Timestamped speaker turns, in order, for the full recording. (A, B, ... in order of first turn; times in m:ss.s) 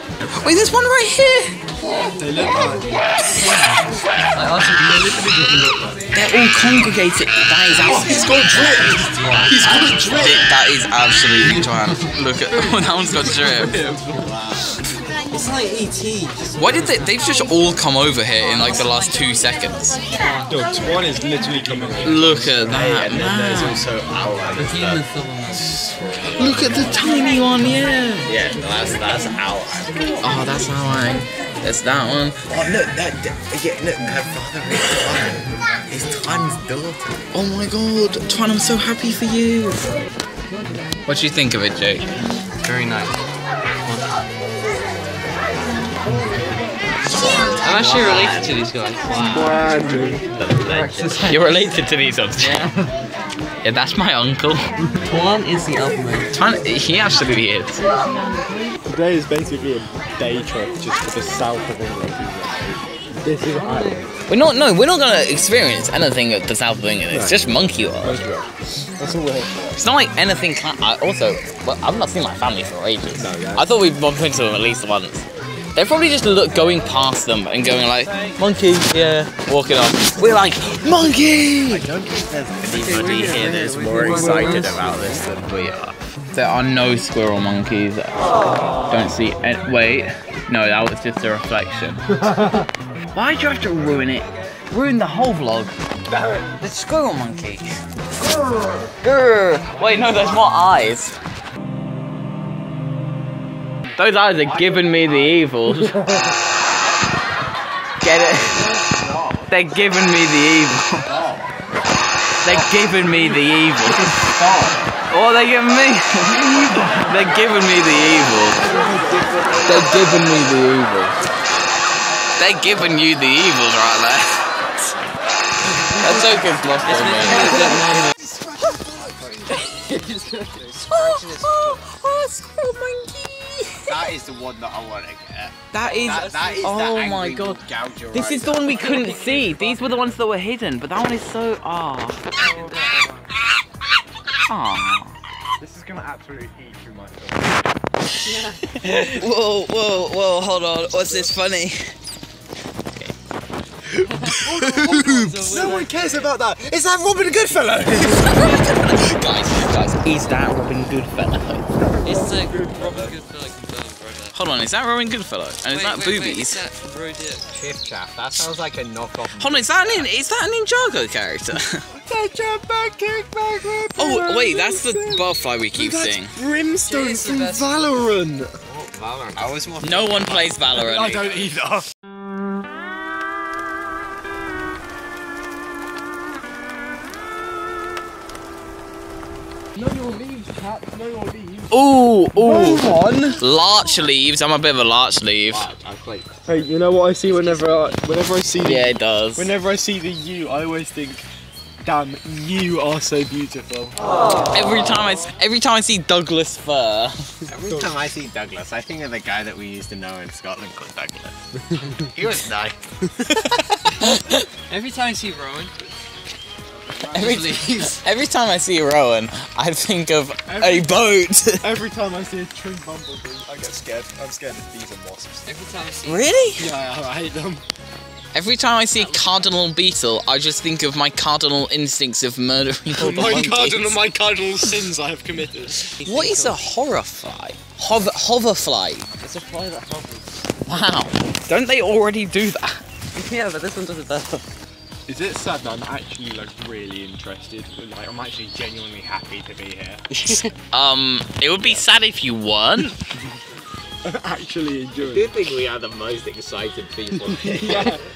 0:00.3-0:01.6 A
0:02.1-0:03.4 B
0:03.2-0:03.8 C
0:04.3-0:06.0 C
0:06.1-0:09.0 A
0:07.8-0:10.4 B
0:08.6-0:10.3 D
0:09.6-0:13.8 A
0:13.2-0:14.4 B
0:14.2-0:14.6 D
0:15.3-0:17.1 C
0:16.6-0:20.0 A
0:18.4-0:18.9 C
0:20.1-0:20.5 C
0:20.5-0:22.5 B
0:22.0-0:23.9 A
0:22.6-0:25.0 D
0:24.5-0:25.7 C
0:26.2-0:28.3 A
0:28.2-0:30.4 D
0:30.2-0:32.4 A
0:32.5-0:37.2 D
0:37.3-0:39.8 A
0:41.0-0:42.1 A
0:42.6-0:43.2 C
0:43.8-0:44.1 C
0:47.2-0:48.5 A
0:47.6-0:49.6 C
0:49.2-0:50.2 B
0:49.9-0:51.2 D
0:50.6-0:51.7 C
0:51.2-0:52.7 A
0:52.4-0:52.9 C
0:53.6-0:54.7 A
0:55.0-0:56.3 C
0:56.3-0:57.8 A
0:58.9-1:04.1 B
1:03.5-1:04.0 C
1:04.3-1:08.2 A
1:07.1-1:07.4 B
1:08.0-1:09.8 B
1:09.8-1:21.9 A
1:13.2-1:13.7 B
1:21.5-1:25.9 D
1:22.6-1:25.0 C
1:24.0-1:25.2 A
1:26.3-1:28.2 A
1:28.9-1:32.0 A
1:32.2-1:32.6 B
1:33.1-1:35.7 A
1:36.1-1:36.5 B
1:36.6-1:37.7 A
1:38.2-1:38.9 B
1:39.0-1:41.1 A
1:44.0-1:46.0 A
1:44.4-1:45.4 D
1:45.9-1:46.3 B
1:48.0-1:48.7 A
1:48.2-1:49.5 D
1:49.5-1:51.1 A
1:51.0-1:51.5 D
1:52.4-1:54.3 A
1:52.4-1:54.8 D
1:55.1-1:58.6 A
1:58.6-1:59.2 B
1:58.6-2:00.2 D
1:59.6-2:01.2 A
2:02.4-2:04.9 A
2:05.8-2:07.8 A
2:06.8-2:08.1 C
2:08.6-2:09.3 D
2:09.6-2:11.8 C
2:10.8-2:14.1 A
2:13.8-2:19.5 D
2:15.7-2:17.6 A
2:16.0-2:16.7 C
2:18.1-2:22.3 A
2:18.9-2:19.6 B
2:19.0-2:19.7 C
2:22.4-2:23.3 C
2:22.4-2:22.7 B
2:24.5-2:25.2 A
2:25.6-2:27.6 B
2:28.2-2:31.9 A
2:28.2-2:28.6 C
2:33.9-2:38.5 B
2:34.2-2:36.0 C
2:34.5-2:35.4 A
2:38.0-2:41.6 A
2:41.8-2:43.1 B
2:42.0-2:44.4 C
2:44.3-2:46.6 A
2:45.7-2:47.4 C
2:47.5-2:50.1 D
2:49.4-2:51.9 A
2:51.9-2:58.6 B
2:54.0-2:56.4 A
2:56.8-2:57.7 C
2:58.6-3:00.6 D
2:59.8-3:01.6 A
3:00.8-3:01.9 B
3:09.8-3:11.8 B
3:11.7-3:15.7 A
3:12.3-3:13.4 B
3:15.5-3:16.4 D
3:16.4-3:21.2 B
3:18.6-3:19.5 A
3:21.8-3:24.0 B
3:24.5-3:27.3 A
3:27.5-3:31.4 D
3:27.7-3:27.9 B
3:32.0-3:32.9 D
3:33.3-3:34.5 A
3:34.7-3:35.7 C
3:37.1-3:37.9 D
3:37.1-3:41.7 A
3:37.2-3:37.8 C
3:40.5-3:41.0 B
3:41.6-3:45.5 B
3:45.4-3:46.2 C
3:46.0-3:46.7 A
3:46.6-3:47.6 B
3:48.3-3:54.0 A
3:49.0-3:49.3 C
3:52.9-3:55.9 B
3:54.6-3:54.9 A
3:56.0-3:56.6 C
3:56.0-3:59.1 A
3:59.2-4:00.3 C
4:00.7-4:02.8 A
4:03.1-4:04.4 C
4:05.1-4:10.0 B
4:10.1-4:10.5 C
4:10.7-4:13.0 A
4:14.0-4:15.3 B
4:15.0-4:18.0 D
4:17.3-4:18.0 B